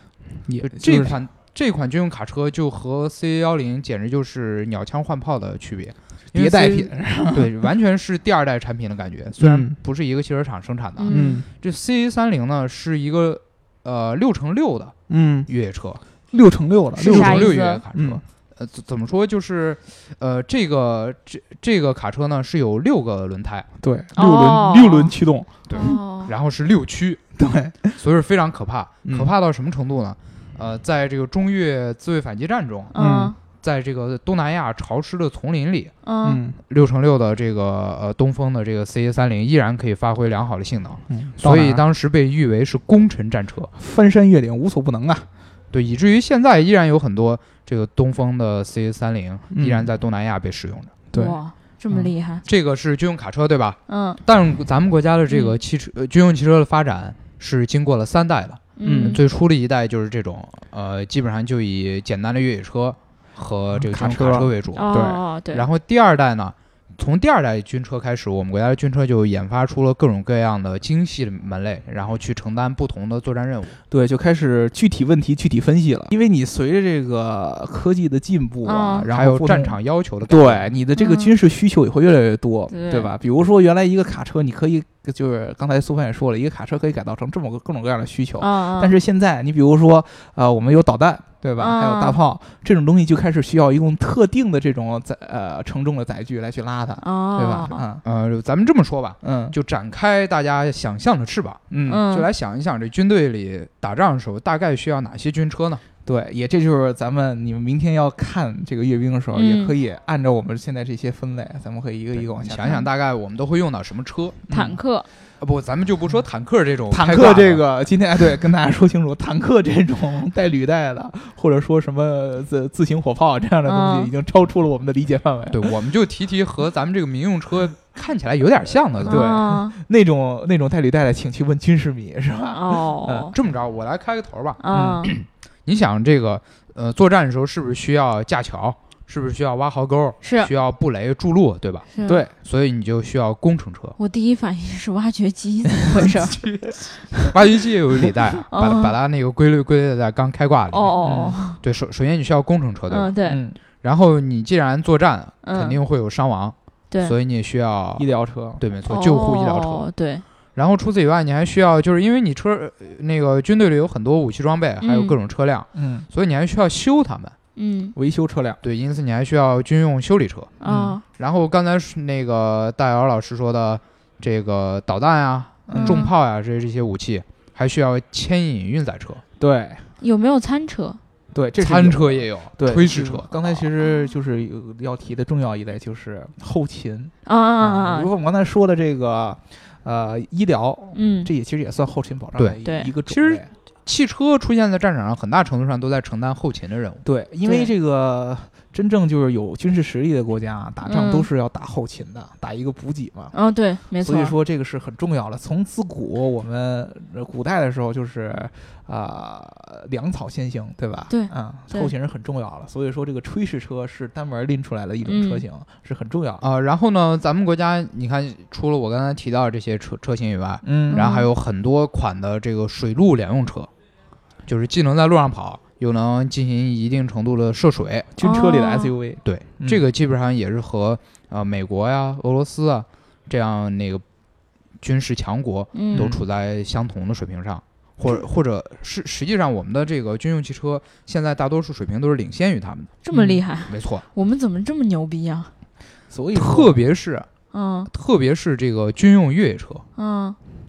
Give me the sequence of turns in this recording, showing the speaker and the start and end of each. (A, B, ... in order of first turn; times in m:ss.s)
0:00.4-0:01.2 A
0:00.6-0:14.9 B
0:06.3-0:07.6 A
0:09.4-0:09.8 A
0:11.0-0:11.4 C
0:11.1-0:11.5 A
0:15.1-0:15.5 A
0:15.5-0:16.0 B
0:16.3-0:18.2 A
0:17.0-0:17.8 C
0:17.0-0:23.7 B
0:23.8-0:25.5 A
0:24.2-0:25.1 C
0:25.7-0:27.2 B
0:25.7-0:26.3 C
0:27.4-0:28.0 A
0:28.0-0:32.9 B
0:29.0-0:29.3 A
0:32.9-0:33.4 C
0:33.0-0:33.3 A
0:33.5-0:35.9 B
0:36.0-0:36.4 C
0:36.2-0:36.6 A
0:36.6-0:43.7 B
0:41.1-0:41.8 A
0:43.7-0:45.3 A
0:45.7-0:51.0 B
0:49.5-0:49.9 A
0:51.1-0:51.4 A
0:51.1-0:52.4 C
0:52.4-1:04.9 B
0:53.9-0:54.2 C
0:55.3-0:55.6 C
0:58.8-0:59.2 C
0:58.8-0:59.2 A
1:03.7-1:05.2 A
1:04.7-1:05.6 C
1:05.5-1:13.8 B
1:13.9-1:38.0 A
1:18.6-1:19.0 C
1:19.1-1:20.7 B
1:21.0-1:21.3 C
1:22.7-1:23.1 C
1:28.4-1:29.0 C
1:31.6-1:32.2 C
1:37.0-1:37.8 C
1:38.0-1:45.8 B
1:39.2-1:39.6 A
1:41.7-1:42.0 A
1:41.9-1:42.3 C
1:46.0-1:52.9 A
1:49.3-1:49.7 C
1:52.2-1:54.4 B
1:54.5-1:54.8 A
1:54.5-1:55.1 C
1:55.4-1:57.6 B
1:56.9-2:05.7 A
2:03.6-2:04.1 C
2:05.5-2:09.4 B
2:09.0-2:13.3 A
2:09.0-2:09.8 C
2:12.5-2:13.3 C
2:13.3-2:21.9 B
2:14.6-2:15.1 C
2:14.7-2:15.1 A
2:20.2-2:20.5 C
2:21.9-2:22.2 C
2:22.0-2:22.3 A
2:22.4-2:24.0 B
2:24.0-2:26.4 C
2:25.9-2:27.3 A
2:27.2-2:31.0 B
2:28.5-2:28.9 C
2:30.7-2:31.6 C
2:31.0-2:31.4 A
2:31.6-2:33.1 B
2:32.9-2:33.4 C
2:33.2-2:33.6 A
2:33.8-2:38.0 B
2:35.4-2:35.8 C
2:36.9-2:37.2 C
2:38.0-2:38.6 A
2:38.6-2:39.9 B
2:38.9-2:40.2 C
2:40.6-2:47.3 B
2:44.8-2:45.2 C
2:45.7-2:46.1 A
2:47.6-2:47.9 C
2:47.9-2:48.6 A
2:48.6-2:50.5 B
2:50.6-2:51.0 C
2:50.6-2:51.0 A
2:51.2-2:59.2 B
2:55.7-2:56.0 A
2:55.7-2:56.1 C
2:59.4-2:59.8 A
3:00.0-3:01.0 C
3:01.3-3:13.5 A
3:01.6-3:03.7 B
3:07.2-3:08.1 C
3:10.9-3:11.3 C
3:12.4-3:17.0 B
3:12.6-3:12.9 C
3:17.0-3:23.3 A
3:17.4-3:17.7 C
3:20.8-3:21.3 C
3:23.3-3:24.3 C
3:24.0-3:36.4 A
3:31.1-3:31.9 C
3:35.0-3:35.4 C
3:36.4-3:43.7 B
3:40.6-3:41.0 A
3:40.9-3:41.3 C
3:44.4-3:48.1 B
3:48.1-3:49.8 A
3:48.2-3:48.9 C
3:49.2-3:54.0 B
3:54.8-4:02.9 B
3:55.7-3:56.1 C
3:55.9-3:56.2 A
4:03.0-4:05.5 C
4:03.1-4:03.4 A
4:03.7-4:04.0 B
4:06.1-4:06.8 A
4:06.3-4:07.3 B
4:07.5-4:07.9 C
4:07.9-4:09.8 B
4:10.0-4:10.4 C